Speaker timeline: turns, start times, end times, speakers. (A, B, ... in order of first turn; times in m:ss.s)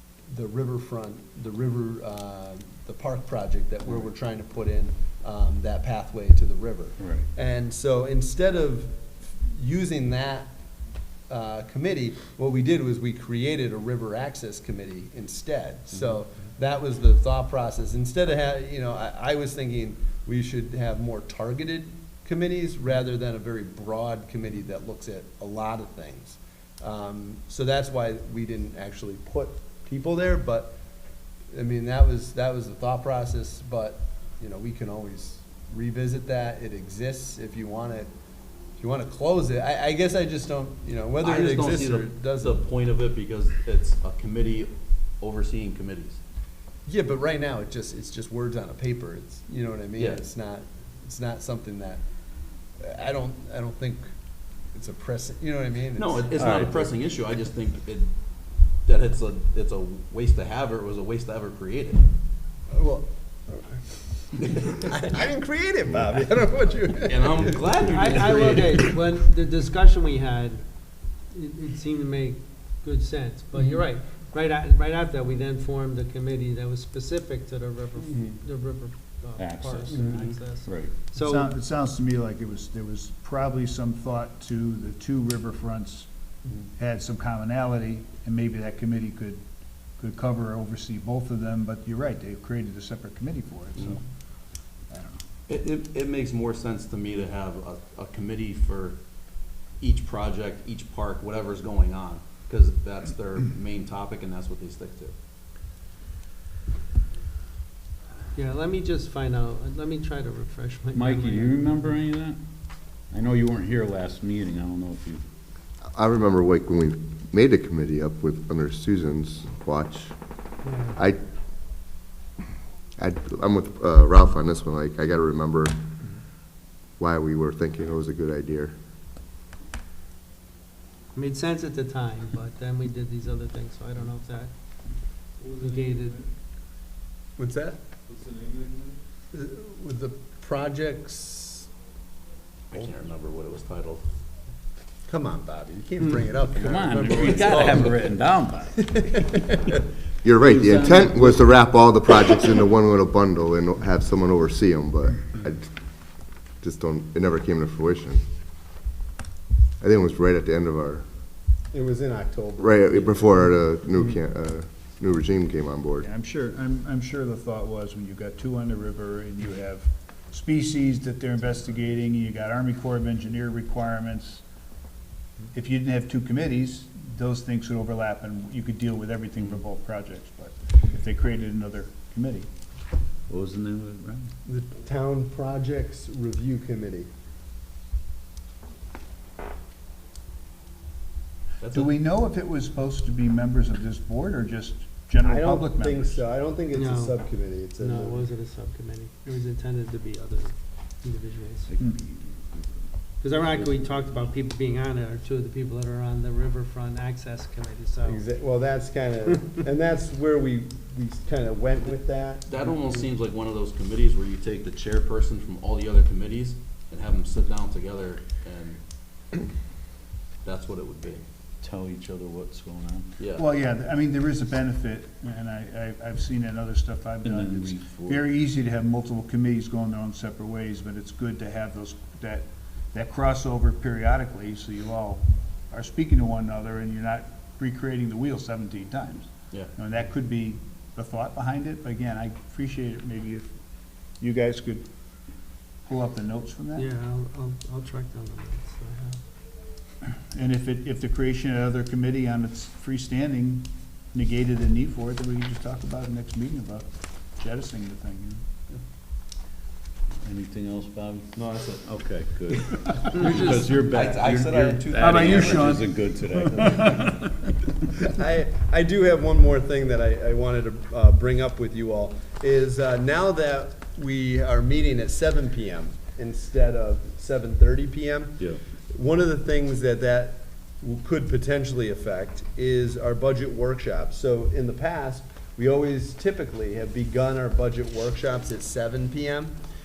0:00.3-0:10.5 A
0:07.0-0:07.3 B
0:11.3-0:30.8 A
0:31.5-0:38.1 A
0:38.8-0:42.6 A
0:41.2-0:44.7 C
0:45.2-0:46.2 C
0:46.9-0:52.0 A
0:52.8-0:54.1 A
0:54.7-0:56.8 A
0:56.0-0:58.1 C
0:56.4-0:56.8 B
0:58.9-1:02.0 C
1:02.7-1:08.6 A
1:07.1-1:08.8 C
1:07.8-1:10.6 D
1:11.3-1:21.5 D
1:19.4-1:21.0 B
1:19.9-1:20.2 A
1:21.2-1:26.1 E
1:26.8-1:29.4 E
1:30.0-1:34.0 E
1:34.9-1:35.2 E
1:35.5-1:39.0 C
1:39.8-1:45.1 C
1:48.3-1:51.7 D
1:50.9-1:52.4 B
1:53.1-1:55.2 B
1:55.8-2:00.2 F
2:00.6-2:01.0 D
2:03.0-2:05.8 F
2:07.0-2:08.8 F
2:11.1-2:14.5 D
2:15.4-2:16.2 D
2:17.4-2:17.8 A
2:19.3-2:21.7 A
2:22.7-2:24.0 C
2:25.1-2:28.0 A
2:26.6-2:29.4 B
2:27.4-2:27.8 C
2:28.9-2:29.8 A
2:30.2-2:35.7 F
2:30.4-2:31.4 B
2:36.6-2:38.2 F
2:39.8-2:41.1 F
2:41.7-2:43.5 A
2:42.6-2:46.0 F
2:46.0-2:54.4 E
2:55.5-3:02.5 E
3:03.3-3:04.3 B
3:04.5-3:07.1 A
3:11.6-3:11.9 C
3:11.7-3:16.2 E
3:15.2-3:18.3 A
3:16.7-3:17.2 D
3:17.8-3:21.7 D
3:21.7-3:22.8 B
3:23.2-3:28.2 D
3:23.5-3:24.1 B
3:28.0-3:32.5 A
3:32.5-3:38.8 C
3:40.4-3:41.2 C
3:41.6-3:43.1 B
3:43.2-3:43.5 C
3:43.4-4:03.5 E
3:47.2-3:48.2 B
4:04.2-4:04.9 E
4:05.8-4:06.9 E
4:06.8-4:09.2 D
4:10.2-4:18.4 E
4:20.2-4:27.2 B
4:21.4-4:21.8 C
4:22.5-4:25.7 C
4:23.2-4:25.8 A
4:25.0-4:27.2 E
4:28.0-4:49.6 A